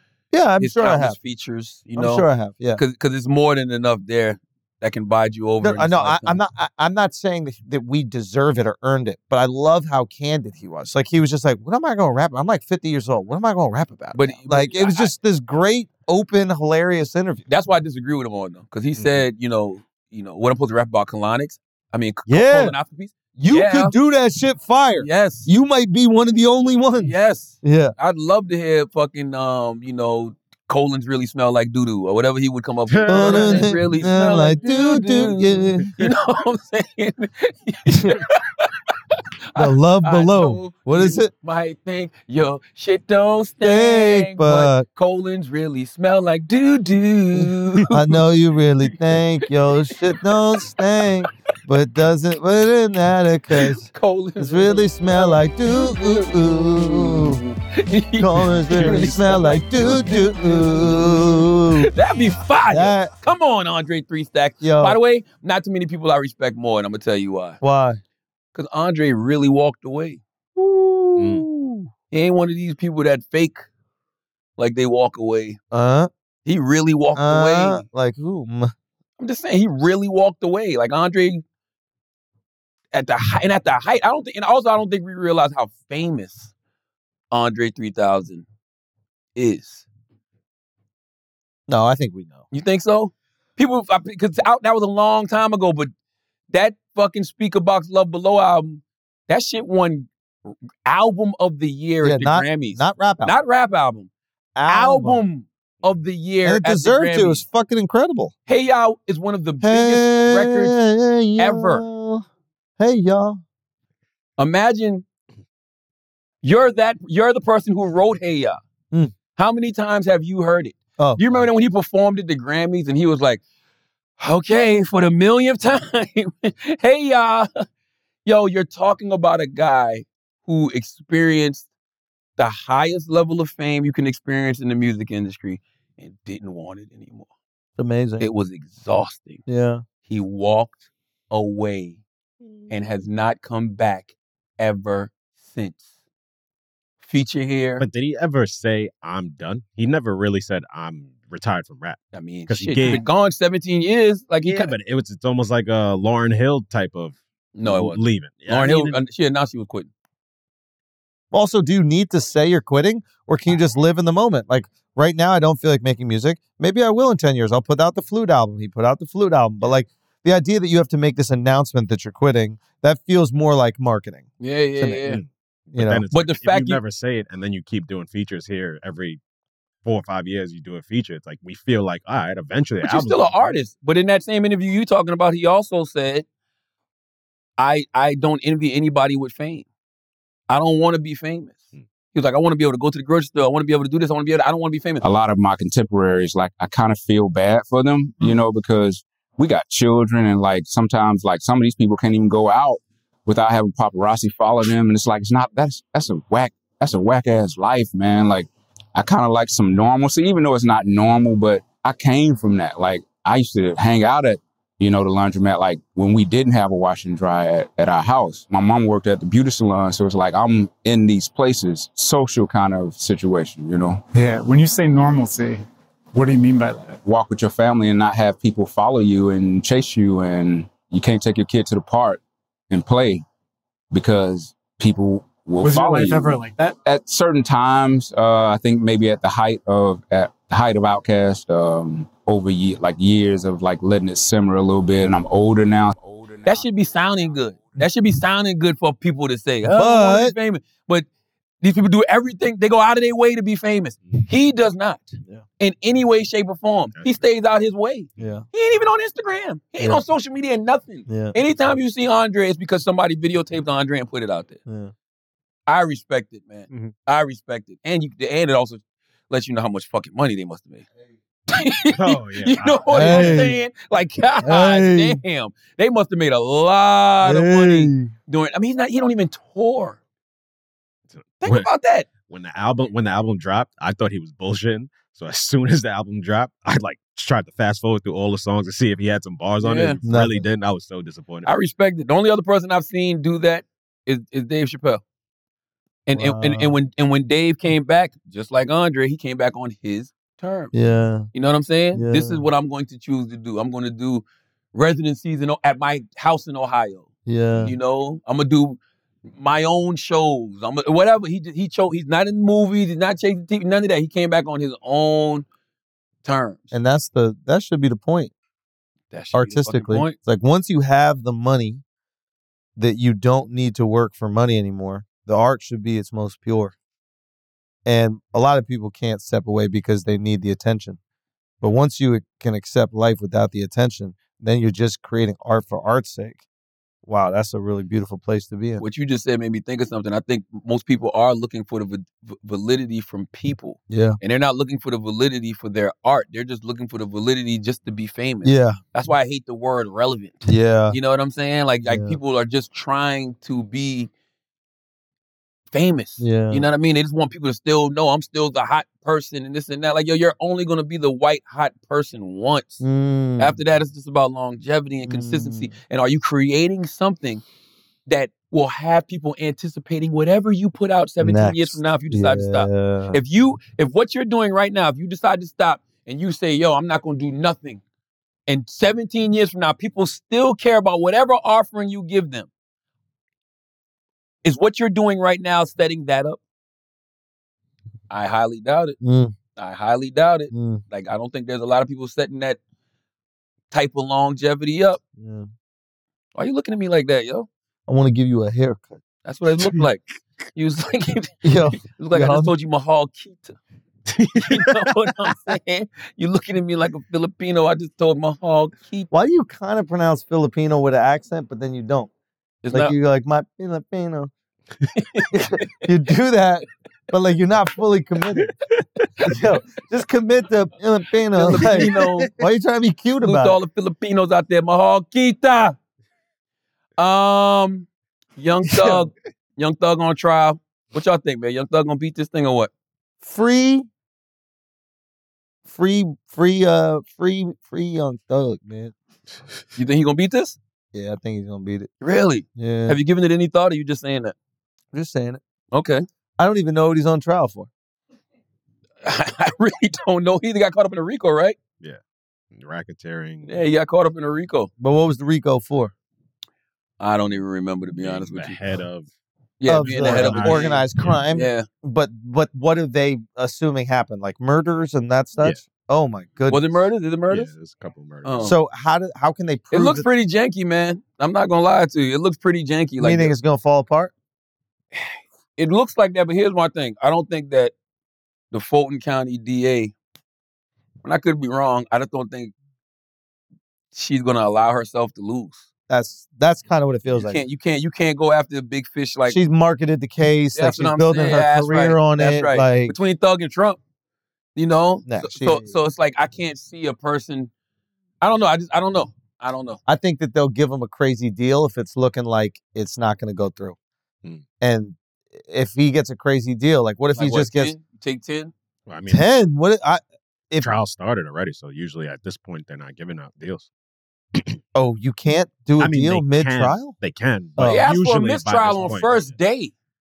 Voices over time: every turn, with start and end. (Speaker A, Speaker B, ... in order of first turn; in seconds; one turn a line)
Speaker A: 0.3-1.2
Speaker B: 0.6-6.4
Speaker A: 1.9-2.8
Speaker A: 5.6-17.4
Speaker B: 14.1-15.1
Speaker B: 17.5-23.9
Speaker A: 22.3-22.8
Speaker A: 23.4-27.9
Speaker B: 25.0-25.5
Speaker B: 27.0-38.9
Speaker C: 32.9-34.5
Speaker A: 33.1-35.9
Speaker C: 35.8-36.1
Speaker B: 39.5-48.0
Speaker A: 39.5-41.3
Speaker A: 43.6-44.9
Speaker A: 47.9-57.4
Speaker B: 49.8-50.7
Speaker B: 53.6-60.3
Speaker A: 58.2-61.9
Speaker B: 61.9-67.6
Speaker A: 62.7-63.1
Speaker A: 64.6-65.0
Speaker A: 67.6-68.0
Speaker B: 68.5-70.2
Speaker A: 70.6-71.9
Speaker C: 71.2-71.4
Speaker B: 72.1-73.6
Speaker B: 74.6-75.6
Speaker A: 75.7-76.1
Speaker B: 76.4-77.8
Speaker A: 77.1-78.7
Speaker B: 79.2-81.4
Speaker B: 82.9-86.5
Speaker B: 87.3-88.5
Speaker B: 89.3-89.8
Speaker A: 91.7-92.4
Speaker B: 92.5-95.9
Speaker B: 96.5-104.1
Speaker A: 102.0-103.3
Speaker A: 104.5-105.2
Speaker B: 104.7-107.4
Speaker A: 106.4-108.3
Speaker B: 108.5-110.7
Speaker A: 109.6-112.2
Speaker B: 111.4-111.8
Speaker A: 112.8-113.4
Speaker B: 114.4-115.0
Speaker B: 116.4-118.6
Speaker B: 119.3-123.4
Speaker A: 121.0-121.4
Speaker B: 124.2-127.6
Speaker B: 128.2-131.7
Speaker B: 132.4-137.3
Speaker A: 137.8-138.2
Speaker B: 138.2-139.4
Speaker A: 139.5-139.8
Speaker B: 140.1-140.8
Speaker B: 141.3-142.0
Speaker B: 142.7-145.8
Speaker B: 147.0-147.8
Speaker C: 147.8-153.0
Speaker B: 152.1-154.7
Speaker C: 154.4-159.0
Speaker B: 157.5-159.9
Speaker A: 161.3-174.3
Speaker B: 174.4-175.2
Speaker C: 175.0-179.2
Speaker A: 175.7-176.0
Speaker B: 176.1-176.8
Speaker C: 179.8-183.5
Speaker B: 182.8-186.2
Speaker B: 187.6-189.7
Speaker B: 190.5-191.6
Speaker B: 192.1-195.0
Speaker D: 195.0-224.0
Speaker E: 224.1-227.0
Speaker D: 227.0-233.2
Speaker D: 233.9-246.7
Speaker E: 235.6-236.8
Speaker B: 246.4-251.1
Speaker A: 249.7-250.3
Speaker B: 251.6-264.6
Speaker C: 256.9-257.2
Speaker A: 258.2-258.4
Speaker A: 261.1-261.3
Speaker A: 264.6-264.9
Speaker B: 265.7-270.9
Speaker B: 271.5-280.0
Speaker C: 271.9-273.5
Speaker A: 272.9-273.6
Speaker A: 274.4-275.2
Speaker A: 277.2-278.1
Speaker C: 281.1-281.7
Speaker B: 281.4-282.1
Speaker C: 282.2-291.5
Speaker B: 289.6-290.0
Speaker A: 290.1-290.4
Speaker B: 291.4-295.0
Speaker B: 296.1-300.7
Speaker A: 296.1-296.7
Speaker A: 300.7-301.3
Speaker B: 301.3-308.8
Speaker A: 301.9-302.4
Speaker A: 307.2-307.7
Speaker B: 309.3-315.4
Speaker B: 316.2-316.7
Speaker A: 316.7-318.3
Speaker B: 319.1-320.1
Speaker A: 319.3-321.8
Speaker A: 322.8-326.7
Speaker A: 327.8-331.0
Speaker A: 331.6-336.4
Speaker A: 337.0-338.8
Speaker B: 338.8-354.1
Speaker A: 343.9-344.2
Speaker A: 348.4-348.8
Speaker A: 350.4-350.9
Speaker A: 351.9-352.2
Speaker B: 355.7-362.8
Speaker A: 356.2-356.6
Speaker A: 362.8-363.6
Speaker B: 363.4-367.4
Speaker A: 365.1-365.7
Speaker B: 368.1-377.8
Speaker A: 371.2-373.2
Speaker B: 378.5-382.5
Speaker B: 384.4-386.4
Speaker B: 388.1-388.9
Speaker A: 389.0-389.3
Speaker B: 389.6-392.6
Speaker A: 390.5-390.8
Speaker B: 393.7-395.0
Speaker A: 395.2-395.5
Speaker B: 396.3-397.5
Speaker A: 397.9-398.9
Speaker B: 399.2-403.6
Speaker A: 401.4-402.5
Speaker B: 404.2-409.1
Speaker A: 409.1-412.1
Speaker B: 412.6-412.9
Speaker A: 412.7-414.3
Speaker B: 414.9-415.7
Speaker A: 415.3-418.5
Speaker A: 419.2-423.6
Speaker B: 421.3-422.3
Speaker C: 421.6-421.9
Speaker B: 423.2-425.8
Speaker B: 427.0-432.7
Speaker A: 433.2-433.9
Speaker A: 435.6-438.9
Speaker B: 439.8-440.6
Speaker A: 440.9-441.9
Speaker B: 442.0-444.3
Speaker A: 442.6-443.0
Speaker A: 444.9-445.4
Speaker B: 445.7-446.0
Speaker A: 446.4-447.7
Speaker B: 449.0-451.6
Speaker C: 452.5-453.6
Speaker B: 453.4-454.7
Speaker A: 454.8-455.9
Speaker B: 457.0-458.6
Speaker C: 457.9-459.1
Speaker B: 459.6-461.7
Speaker A: 459.7-466.9
Speaker C: 459.8-461.2
Speaker B: 466.5-467.5
Speaker C: 467.3-468.5
Speaker B: 468.2-468.5
Speaker A: 468.4-470.1
Speaker B: 469.7-473.3
Speaker A: 473.0-474.1
Speaker B: 474.9-477.7
Speaker B: 478.5-479.9
Speaker B: 481.0-482.5
Speaker B: 483.9-485.7
Speaker A: 485.9-487.4
Speaker B: 487.2-489.4
Speaker A: 489.2-492.9
Speaker B: 490.5-493.8
Speaker B: 494.6-497.5
Speaker A: 495.1-495.7
Speaker B: 498.2-499.8
Speaker A: 499.9-503.8
Speaker A: 504.6-507.7
Speaker B: 507.1-508.5
Speaker C: 508.9-509.2
Speaker A: 509.1-510.7
Speaker C: 510.6-513.7
Speaker A: 514.7-516.9
Speaker C: 515.8-519.3
Speaker A: 517.6-517.9
Speaker B: 517.6-519.7